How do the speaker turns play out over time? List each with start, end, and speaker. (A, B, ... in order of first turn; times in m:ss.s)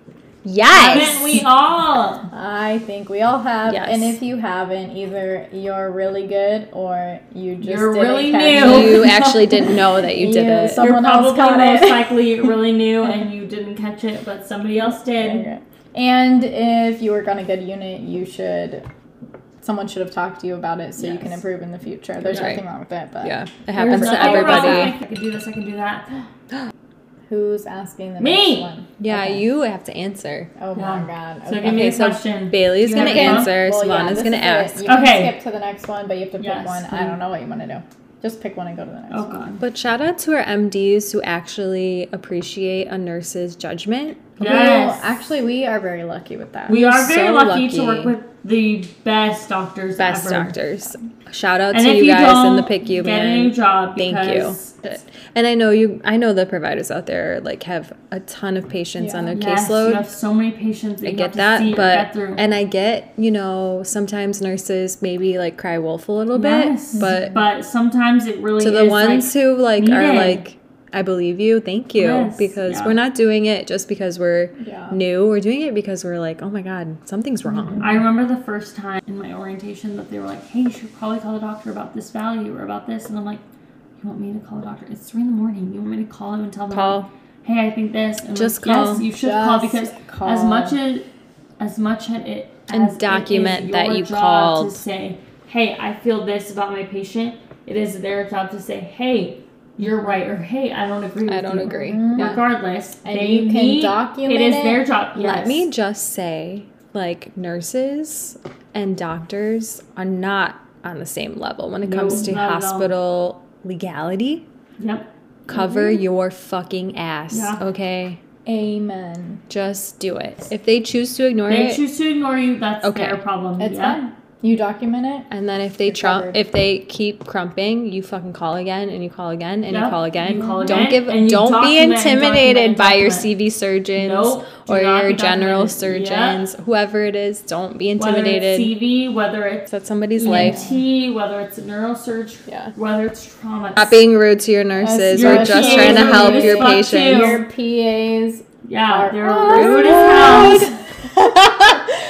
0:00.4-0:01.4 A
0:00.7-0:02.3 B
0:02.3-0:09.1 C
0:03.7-0:04.2 A
0:07.6-0:09.8 B
0:08.5-0:10.9 A
0:10.1-0:12.2 C
0:10.7-0:15.4 B
0:15.2-0:18.8 C
0:19.6-0:24.9 C
0:22.2-0:22.6 A
0:23.2-0:24.9 A
0:23.8-0:26.1 B
0:27.3-0:29.4 C
0:28.2-0:28.6 B
0:29.0-0:30.5 A
0:30.6-0:31.9 C
0:30.8-0:33.5 B
0:31.6-0:34.8 A
0:33.0-0:39.4 C
0:34.8-0:35.4 B
0:36.4-0:37.2 B
0:39.1-0:39.6 B
0:39.6-0:44.3 A
0:44.4-0:45.1 B
0:44.4-0:46.8 C
0:46.7-0:50.5 B
0:46.7-0:48.1 A
0:50.0-1:00.0 A
0:51.7-0:54.7 B
0:59.0-0:59.4 C
0:59.3-1:02.4 B
1:01.0-1:07.3 A
1:06.3-1:10.4 B
1:08.6-1:17.8 A
1:12.0-1:13.0 B
1:14.6-1:15.0 C
1:17.8-1:23.4 B
1:24.0-1:31.0 B
1:26.7-1:27.1 A
1:28.3-1:29.0 A
1:28.9-1:30.8 C
1:31.6-1:45.6 B
1:32.7-1:34.8 A
1:41.3-1:42.4 A
1:41.6-1:42.4 C
1:43.0-1:44.8 C
1:45.2-1:54.4 A
1:51.8-1:52.9 B
1:54.8-1:55.1 B
1:55.5-1:58.2 A
1:57.3-1:57.6 B
1:58.4-1:59.4 C
1:59.5-2:01.8 A
2:01.5-2:04.0 B
2:02.8-2:03.2 A
2:03.6-2:05.3 C
2:05.3-2:18.7 A
2:05.8-2:06.4 C
2:09.7-2:13.3 B
2:10.3-2:10.8 C
2:13.9-2:16.4 B
2:18.0-2:24.0 B
2:19.7-2:20.6 A
2:20.3-2:20.8 C
2:23.8-2:27.4 A
2:24.8-2:30.7 C
2:25.1-2:27.4 B
2:28.6-2:30.7 B
2:29.5-2:31.8 A